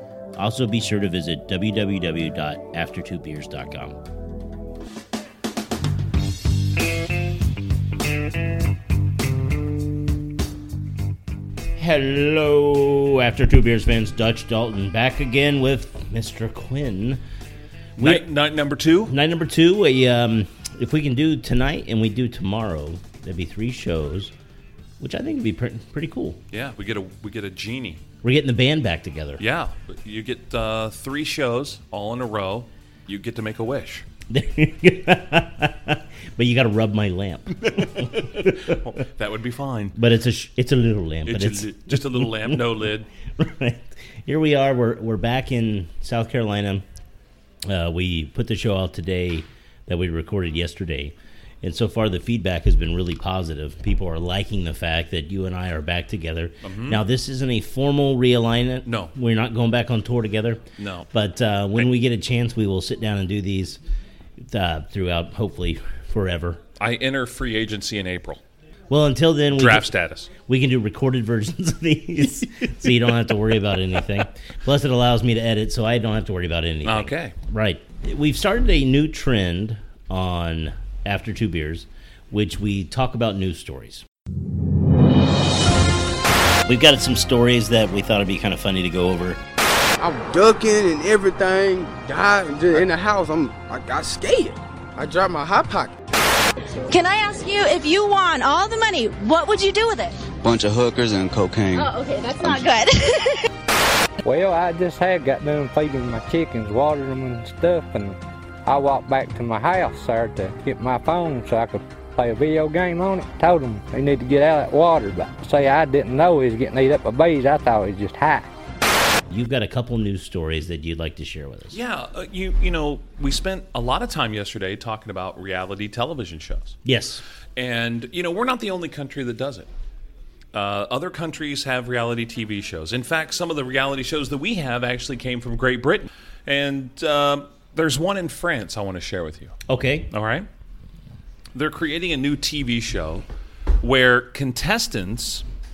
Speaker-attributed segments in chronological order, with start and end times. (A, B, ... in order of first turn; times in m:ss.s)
0:00.4-0:04.0 A
0:11.8-0:17.2 A
0:18.0-0:19.1 B
0:18.0-0:18.3 A
0:19.1-0:24.3 A
0:25.0-0:26.4 A
0:26.5-0:28.0 B
0:28.2-0:29.4 A
0:29.4-0:34.1 B
0:34.3-0:38.7 A
0:37.6-0:40.0 B
0:40.0-0:42.6 A
0:41.3-0:43.1 B
0:43.4-0:46.8 A
0:47.6-1:03.8 A
0:56.6-0:57.0 B
0:58.9-0:59.1 B
1:00.8-1:01.1 B
1:04.4-1:06.6 A
1:06.8-1:08.4 B
1:08.9-1:24.0 A
1:09.5-1:10.3 B
1:16.8-1:17.4 B
1:26.7-1:29.4 A
1:30.0-1:36.0 C
1:36.9-1:40.2 D
1:40.4-1:42.7 E
1:41.8-1:43.5 D
1:44.2-1:58.5 F
1:59.3-2:01.8 A
2:01.7-2:06.8 B
2:06.8-2:07.2 A
2:07.6-2:09.7 B
2:10.5-2:19.6 B
2:19.7-2:20.1 A
2:20.1-2:20.5 B
2:21.5-2:23.2 B
2:23.8-2:25.5 B